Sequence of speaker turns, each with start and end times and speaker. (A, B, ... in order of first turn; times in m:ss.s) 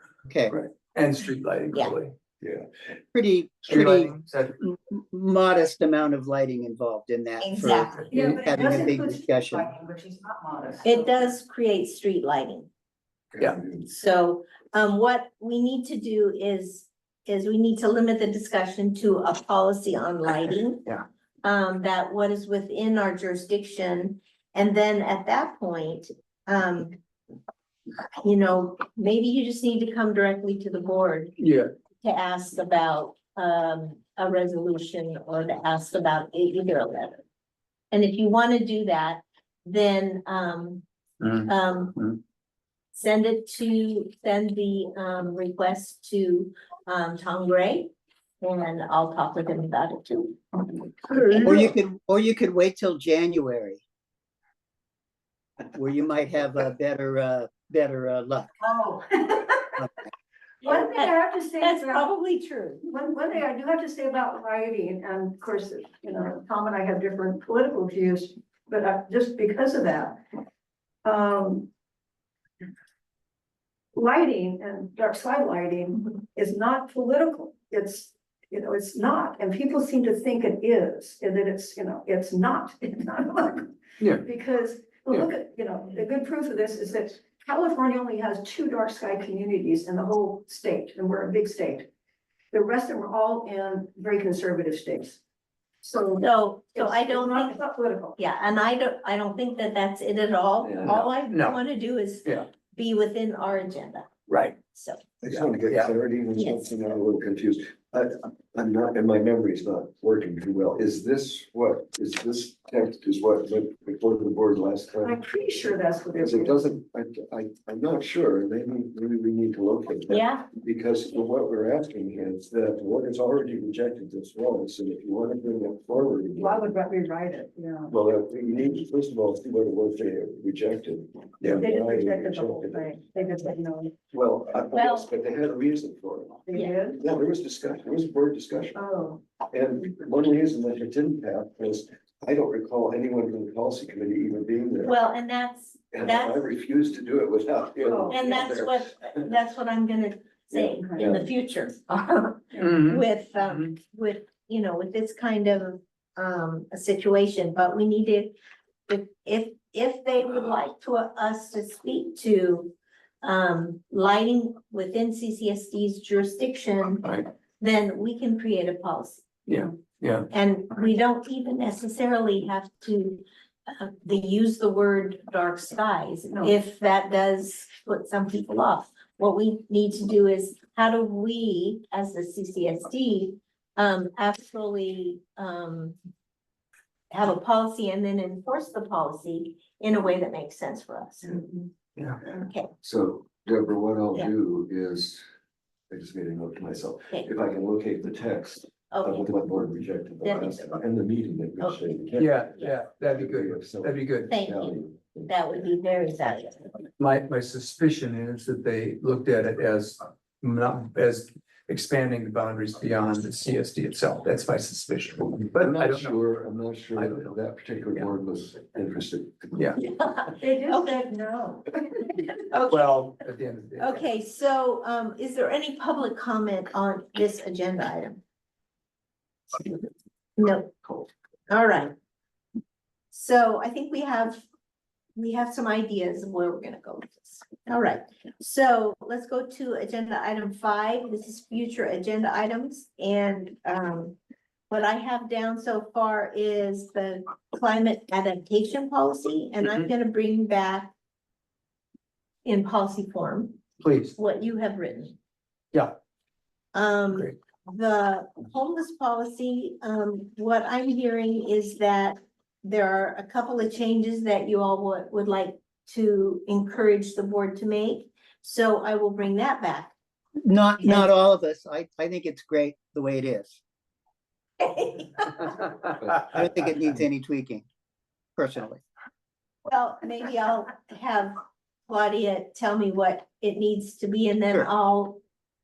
0:00.5-0:02.1 A
0:02.4-0:02.7 B
0:03.1-0:09.7 C
0:03.7-0:04.5 A
0:07.4-0:08.0 D
0:08.1-0:10.9 E
0:10.8-0:12.7 D
0:13.3-0:13.9 B
0:13.9-0:27.0 D
0:28.2-0:31.4 D
0:31.4-0:31.7 A
0:32.0-0:37.2 D
0:37.9-0:40.8 D
0:41.2-0:42.1 A
0:41.4-0:42.0 D
0:42.9-0:51.7 D
0:51.4-0:53.8 C
0:55.7-0:58.5 C
0:58.8-0:59.6 E
1:00.6-1:02.1 E
1:00.6-1:02.8 D
1:02.8-1:10.2 E
1:11.0-1:11.7 E
1:13.9-1:31.9 E
1:32.5-1:35.2 E
1:35.8-1:38.2 E
1:36.2-1:37.6 D
1:38.2-1:44.1 D
1:40.6-1:41.1 B
1:41.3-1:41.6 A
1:44.3-1:44.6 A
1:44.7-1:45.0 D
1:45.2-1:55.2 B
1:45.3-1:45.9 A
1:46.4-1:46.7 D
1:55.0-1:56.7 E
1:56.2-2:06.7 B
2:00.1-2:00.5 D
2:06.4-2:07.9 E
2:07.9-2:12.9 B
2:11.6-2:13.9 E
2:14.1-2:18.8 B
2:14.7-2:15.1 D
2:16.5-2:17.0 E
2:18.7-2:19.2 E
2:19.5-2:24.9 B
2:24.8-2:26.4 D
2:25.9-2:29.2 B
2:27.8-2:28.2 E
2:28.1-2:38.3 D
2:30.5-2:31.3 B
2:30.8-2:31.1 E
2:32.6-2:33.7 A
2:38.9-2:49.3 D
2:49.5-2:50.3 A
2:50.3-3:06.0 D
3:07.1-3:11.5 D
3:12.2-3:12.7 D
3:12.8-3:15.2 B
3:15.9-3:22.5 B
3:18.9-3:19.4 D
3:20.2-3:20.8 D
3:21.6-3:22.0 D
3:22.2-3:24.3 A
3:23.1-3:25.3 B
3:24.3-3:26.7 D
3:27.0-3:36.2 A
3:35.5-3:39.6 B
3:36.9-3:37.3 A
3:39.5-3:39.8 A
3:39.8-3:41.0 D
3:40.4-3:41.8 E
3:42.5-3:42.9 D
3:42.7-3:44.1 A
3:43.8-3:48.2 D
3:50.4-3:51.9 D
3:53.1-3:54.4 D
3:55.2-4:04.2 D
4:04.7-4:10.9 D
4:12.4-4:13.6 D
4:13.8-4:14.1 A
4:14.2-4:15.2 D
4:16.7-4:29.9 D
4:30.4-4:33.6 C
4:30.8-4:31.1 D
4:34.6-4:35.6 D
4:36.1-4:37.6 C
4:38.4-4:38.8 C
4:39.7-4:45.2 D